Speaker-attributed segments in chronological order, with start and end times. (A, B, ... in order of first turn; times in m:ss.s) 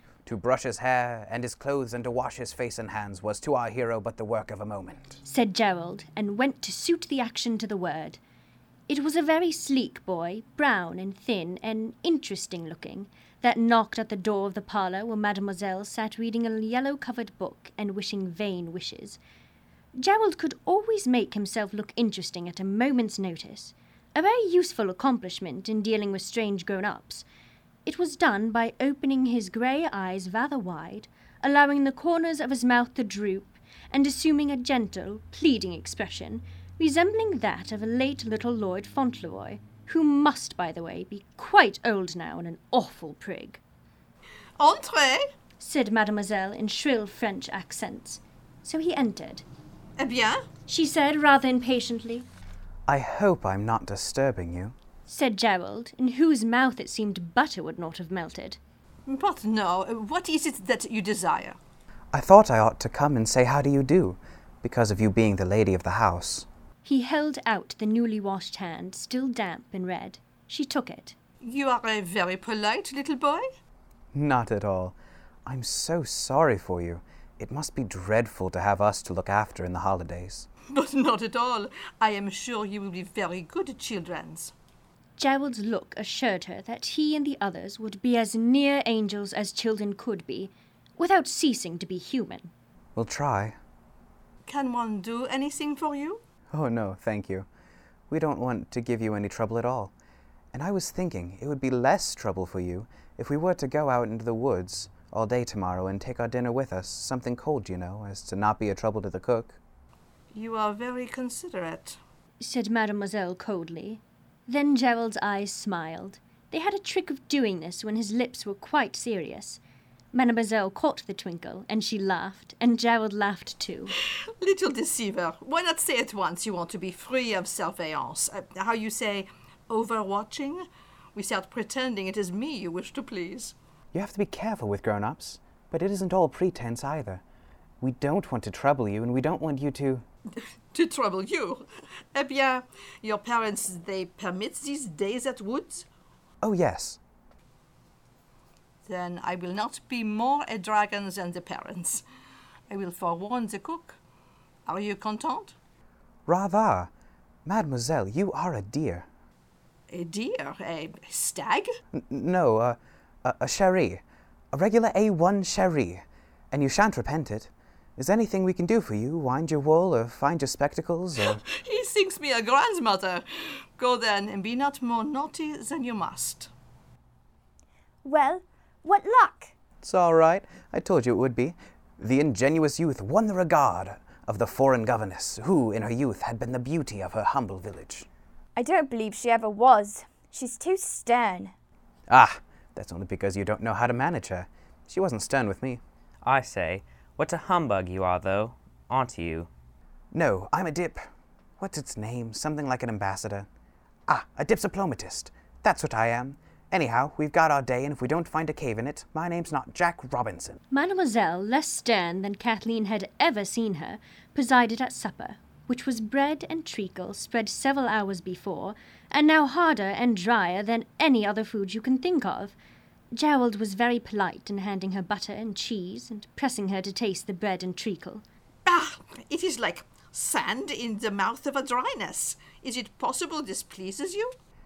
0:00.2-0:05.2 A
0:05.2-0:08.2 B
0:08.9-0:19.2 B
0:19.9-0:27.2 B
0:27.8-0:43.6 B
0:44.6-0:45.3 C
0:45.6-0:49.4 B
0:50.0-0:50.4 C
0:50.7-0:52.2 B
0:52.9-0:54.7 A
0:55.1-0:58.6 B
0:59.0-1:01.6 C
1:02.1-1:06.5 A
1:06.8-1:11.2 B
1:11.4-1:13.4 C
1:14.1-1:20.5 A
1:20.7-1:24.5 C
1:25.2-1:32.5 B
1:32.9-1:33.6 A
1:34.4-1:36.2 C
1:36.5-1:37.5 A
1:38.1-1:39.9 A
1:40.5-1:49.6 A
1:50.3-1:52.0 C
1:52.4-1:59.6 B
2:00.1-2:03.9 B
2:04.4-2:13.5 C
2:13.9-2:17.2 A
2:17.8-2:20.0 A
2:20.7-2:25.9 C
2:26.4-2:27.0 A
2:28.8-2:32.0 C
2:32.7-2:34.0 C
2:34.6-2:35.5 C
2:36.3-2:36.9 A
2:37.4-2:39.0 A
2:39.9-2:41.7 C
2:41.9-2:44.0 A
2:44.5-2:51.4 A
2:51.3-2:53.2 C
2:53.8-2:56.5 C
2:58.0-2:59.5 D
2:59.8-3:08.1 A
3:08.6-3:11.5 D
3:12.1-3:15.8 A
3:16.2-3:19.5 E
3:20.1-3:21.1 A
3:21.6-3:23.5 A
3:24.1-3:30.6 A
3:30.7-3:42.5 B
3:43.1-3:48.2 B
3:48.6-3:54.3 C